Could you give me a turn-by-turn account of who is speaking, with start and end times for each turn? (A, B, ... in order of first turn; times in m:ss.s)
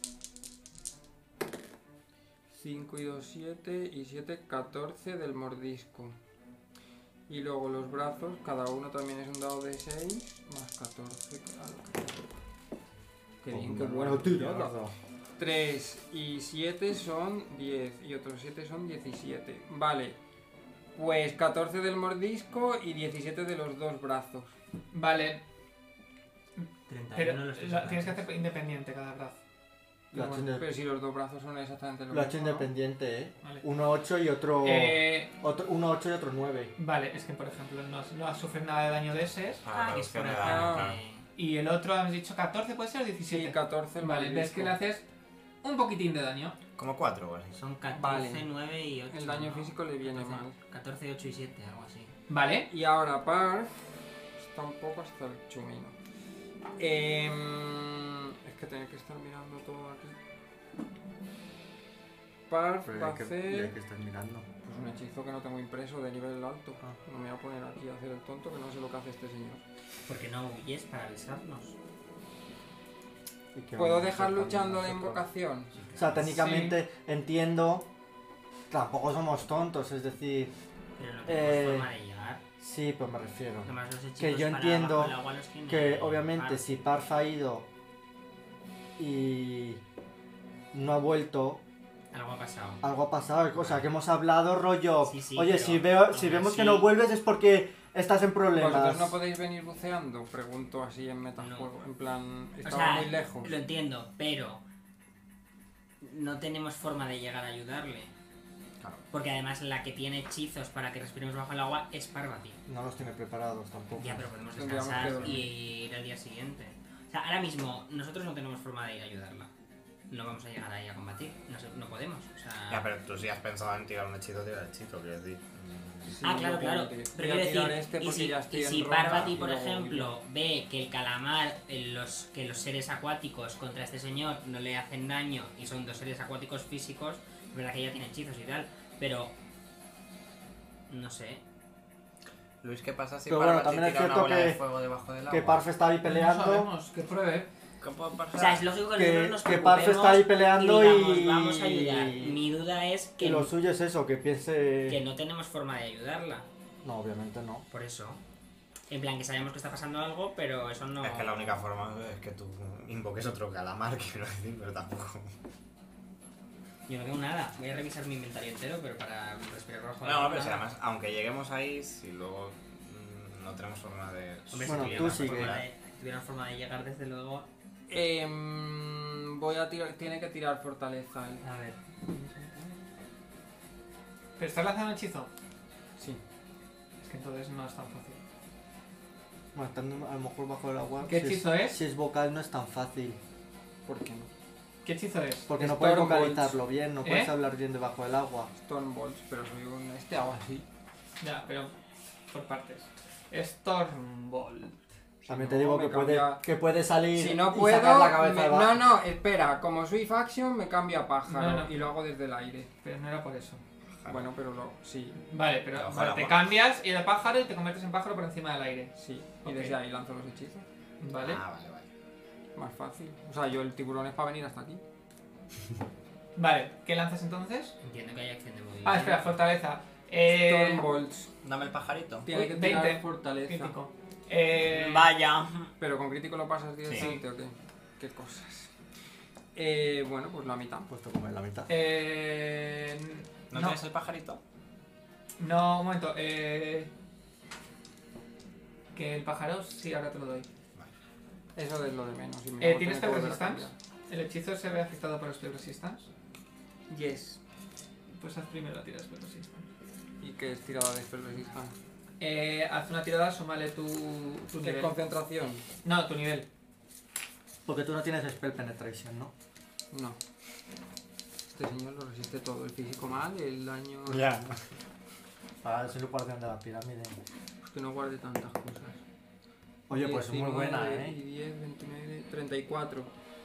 0:02.5-0:06.2 A
0:07.3-0:12.3 A
0:13.4-0:14.8 A
0:13.5-0:14.9 B
0:15.4-0:20.2 A
0:21.0-0:24.5 A
0:24.9-0:25.4 C
0:26.9-0:28.3 D
0:27.2-0:29.4 C
0:30.1-0:30.7 B
0:30.1-0:32.7 A
0:32.1-0:36.7 B
0:34.6-0:35.3 C
0:36.8-0:39.6 C
0:39.6-0:41.0 E
0:39.7-0:41.3 D
0:40.4-0:41.0 A
0:41.4-0:45.0 C
0:43.3-0:44.8 A
0:45.6-0:46.6 C
0:46.8-0:47.6 E
0:47.5-0:52.2 D
0:47.9-0:48.5 A
0:49.1-0:50.6 A
0:52.3-0:52.7 C
0:52.7-0:53.7 A
0:54.4-0:56.0 A
0:56.8-1:00.2 A
1:02.5-1:03.7 A
1:02.9-1:04.5 B
1:04.6-1:09.6 A
1:10.1-1:11.8 D
1:13.5-1:15.3 B
1:13.8-1:15.7 A
1:15.9-1:16.2 E
1:16.0-1:17.9 B
1:16.3-1:16.8 C
1:18.7-1:20.5 B
1:21.0-1:22.4 D
1:21.3-1:21.9 B
1:22.6-1:25.2 B
1:23.6-1:26.6 D
1:25.7-1:27.7 B
1:29.0-1:29.8 B
1:30.7-1:31.6 B
1:32.1-1:32.8 D
1:32.8-1:39.2 B
1:35.0-1:36.9 D
1:38.5-1:43.5 A
1:41.4-1:41.7 D
1:42.6-1:44.6 D
1:46.0-1:48.1 D
1:49.1-1:52.6 D
1:52.7-1:54.3 B
1:54.0-1:59.5 D
1:54.6-1:55.5 A
1:55.2-1:55.4 E
2:00.1-2:02.9 D
2:02.7-2:06.2 E
2:06.1-2:10.1 A
2:06.2-2:19.4 D
2:09.0-2:09.4 E
2:20.9-2:21.4 D
2:22.6-2:25.6 E
2:23.3-2:24.6 B
2:25.3-2:26.7 B
2:26.0-2:27.5 C
2:27.8-2:28.7 E
2:28.4-2:33.5 D
2:29.0-2:32.4 B
2:33.2-2:35.0 B
2:34.9-2:36.5 D
2:36.8-2:37.6 B
2:37.7-2:38.2 D
2:38.9-2:41.6 D
2:41.0-2:45.3 E
2:46.9-2:50.6 D
2:50.0-2:55.6 E
2:54.5-2:57.5 D
2:54.7-2:55.6 B
2:57.9-3:01.4 A
3:01.4-3:02.8 D
3:04.4-3:05.3 C
3:07.0-3:08.2 C
3:09.5-3:13.2 B
3:11.0-3:11.8 C
3:13.9-3:14.3 A
3:14.8-3:15.5 C
3:15.5-3:18.5 B
3:15.6-3:16.6 A
3:17.0-3:17.3 C
3:18.7-3:20.6 A
3:21.2-3:21.7 C
3:22.3-3:24.8 C
3:25.3-3:26.4 A
3:25.3-3:28.8 B
3:27.1-3:32.7 A
3:31.3-3:31.9 C
3:32.8-3:33.6 C
3:34.0-3:34.3 E
3:34.1-3:35.2 A
3:35.2-3:38.9 C
3:35.7-3:36.5 E
3:39.0-3:40.7 A
3:39.4-3:39.8 C
3:41.0-3:41.4 C
3:41.2-3:41.9 E
3:42.6-3:44.8 A
3:46.4-3:47.8 C
3:47.8-3:49.3 D
3:48.8-3:50.9 C
3:50.3-3:51.3 A
3:51.4-3:52.3 E
3:52.2-3:53.8 A
3:52.3-3:55.1 C
3:54.7-3:55.7 D
3:55.8-3:58.7 A
3:57.0-3:57.2 C
3:59.6-4:00.9 A
4:00.9-4:01.7 B
4:01.7-4:03.8 C
4:03.5-4:04.4 E
4:05.4-4:06.9 C
4:08.9-4:10.5 C
4:11.6-4:13.7 A
4:12.6-4:16.1 C
4:16.9-4:17.4 A
4:18.1-4:19.7 C
4:20.2-4:21.8 A
4:22.2-4:25.0 C
4:24.6-4:25.6 A
4:25.8-4:26.5 C
4:27.7-4:29.3 B
4:29.9-4:30.2 A
4:31.5-4:34.3 A
4:34.1-4:34.6 E
4:35.6-4:37.2 B
4:37.6-4:39.0 A
4:39.9-4:41.2 B
4:39.9-4:43.1 A